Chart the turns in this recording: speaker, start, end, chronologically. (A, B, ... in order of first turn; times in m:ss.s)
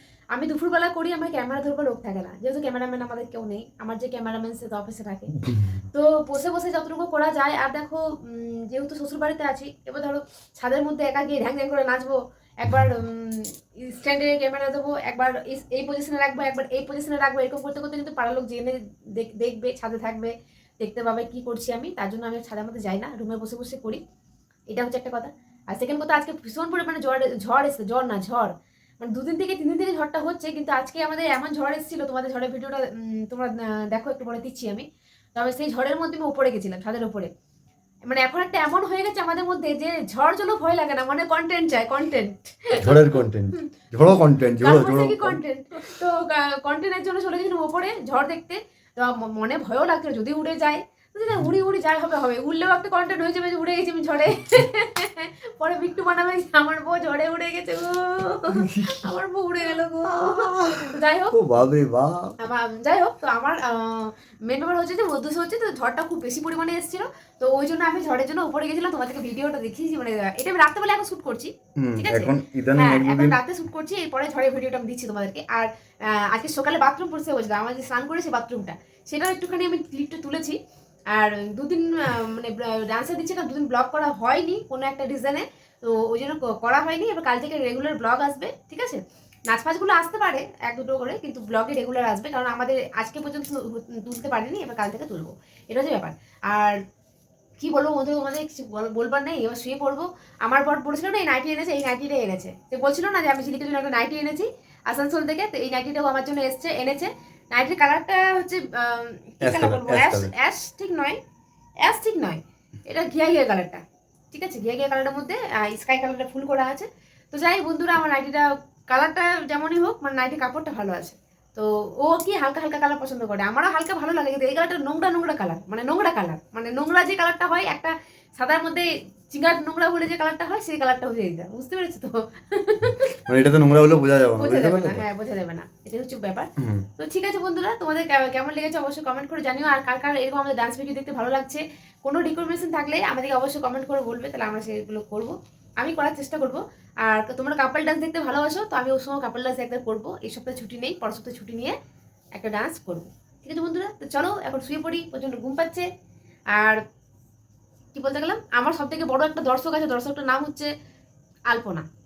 0:00.3-0:05.4 A
0:05.9-0:24.0 A
0:24.7-0:37.3 A
0:38.0-0:43.6 A
0:42.8-0:45.4 B
0:44.6-1:01.4 A
0:58.6-0:59.0 B
1:00.3-1:02.4 B
1:02.4-1:20.6 A
1:11.8-1:13.4 B
1:21.1-1:36.8 A
1:37.6-1:51.2 A
1:49.4-1:50.3 B
1:51.8-2:13.2 A
2:13.3-2:15.0 B
2:14.4-2:31.8 A
2:16.6-2:16.9 B
2:32.4-2:35.9 A
2:36.5-2:36.8 A
2:37.9-2:40.7 A
2:41.5-2:41.9 A